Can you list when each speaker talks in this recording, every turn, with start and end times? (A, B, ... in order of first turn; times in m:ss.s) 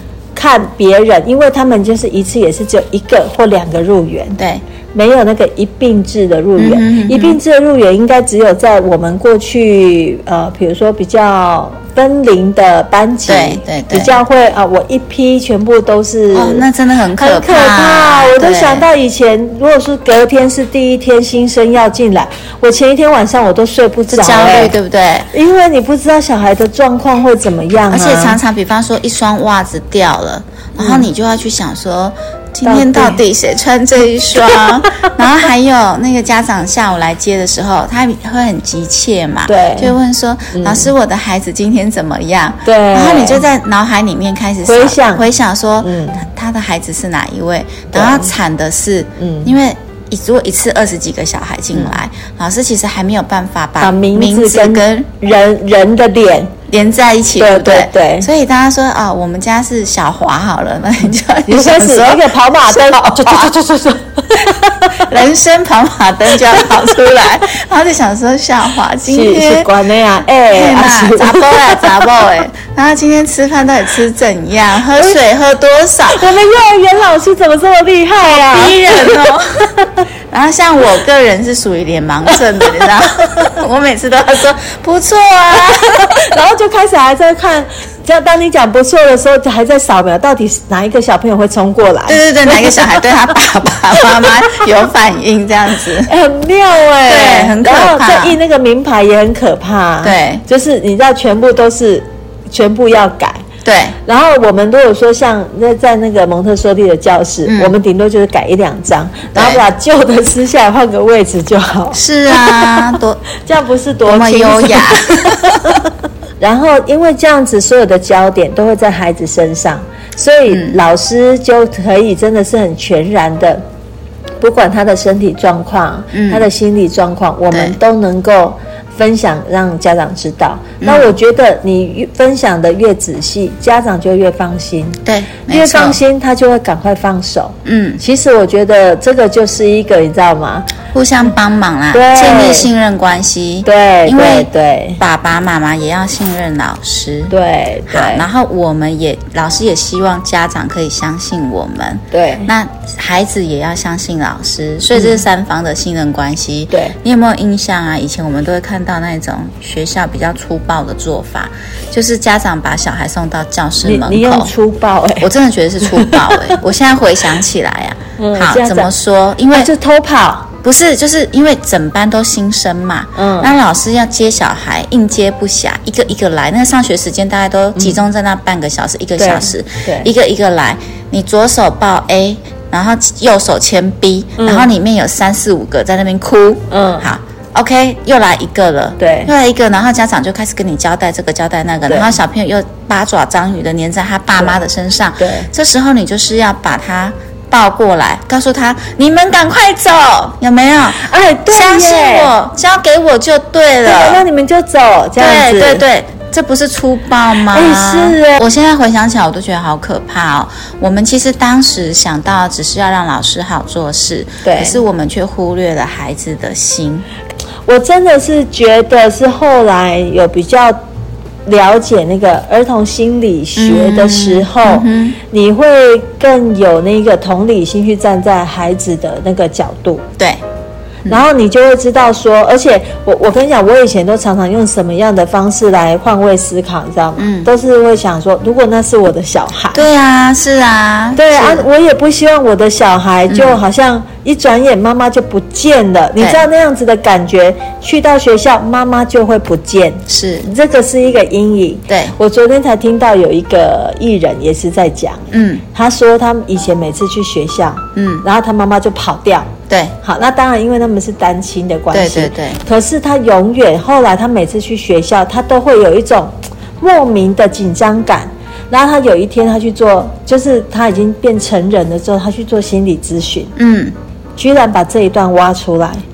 0:00.3-0:04.4 A
0:04.4-0:04.6 B
0:04.9-0:16.6 A
0:06.6-0:07.4 B
0:13.3-0:14.2 B
0:16.3-0:18.8 B
0:17.2-0:24.7 A
0:24.1-0:25.3 B
0:25.3-0:28.4 A
0:27.9-0:55.1 B
0:30.8-0:31.0 A
0:32.6-0:33.2 A
0:34.5-0:35.1 A
0:39.5-0:40.0 A
0:40.5-0:40.9 A
0:42.6-0:43.4 A
0:44.6-0:45.2 A
0:45.8-0:46.3 A
0:47.9-0:48.3 A
0:49.2-0:49.5 A
0:53.8-0:56.5 A
0:56.7-1:03.5 B
0:57.4-0:58.3 A
1:01.5-1:05.1 A
1:04.5-1:09.7 B
1:06.3-1:07.0 A
1:09.0-1:12.2 A
1:10.5-1:16.3 B
1:16.1-1:20.0 A
1:18.3-1:19.7 B
1:20.3-1:26.2 B
1:22.3-1:23.5 A
1:25.6-1:33.0 A
1:32.1-1:36.1 B
1:34.2-1:34.6 A
1:36.0-1:43.4 A
1:37.0-1:38.4 B
1:40.0-1:40.4 B
1:43.6-1:44.0 B
1:44.0-1:55.8 A
1:47.4-1:47.7 B
1:49.3-1:49.6 B
1:51.9-1:53.2 B
1:54.0-1:55.8 B
1:56.4-2:03.6 A
2:00.5-2:00.8 B
2:04.4-2:20.7 A
2:06.1-2:06.5 B
2:07.5-2:07.8 B
2:10.8-2:11.1 B
2:15.0-2:16.0 B
2:17.6-2:18.0 B
2:20.9-2:27.3 B
2:21.9-2:22.7 A
2:23.6-2:25.0 A
2:27.3-2:28.2 A
2:27.9-2:44.5 B
2:32.1-2:32.5 A
2:43.8-2:45.3 A
2:45.2-2:49.7 B
2:45.8-2:46.6 A
2:48.2-2:48.9 A
2:49.5-2:50.5 A
2:50.6-3:24.2 B
2:53.2-2:53.5 A
2:57.8-2:58.0 A
2:59.2-3:00.1 A
3:04.4-3:04.7 A
3:06.7-3:07.1 A
3:09.0-3:09.3 A
3:11.9-3:12.2 A
3:15.2-3:15.5 A
3:20.9-3:22.3 A
3:23.8-3:25.8 A
3:25.2-3:37.1 B
3:27.5-3:28.4 A
3:34.4-3:34.8 A
3:37.7-3:40.8 A
3:41.4-3:50.1 A
3:43.6-3:45.2 B
3:51.1-3:59.8 A
3:57.2-3:57.5 B
3:59.7-4:01.6 B
4:01.2-4:19.5 A
4:03.3-4:03.6 B
4:06.2-4:06.4 B
4:10.1-4:10.5 B
4:11.9-4:12.2 B
4:15.3-4:15.6 B
4:17.9-4:18.2 B
4:19.7-4:19.9 B
4:20.0-4:33.5 A
4:21.9-4:22.6 B
4:33.6-4:34.0 B
4:34.4-4:36.0 A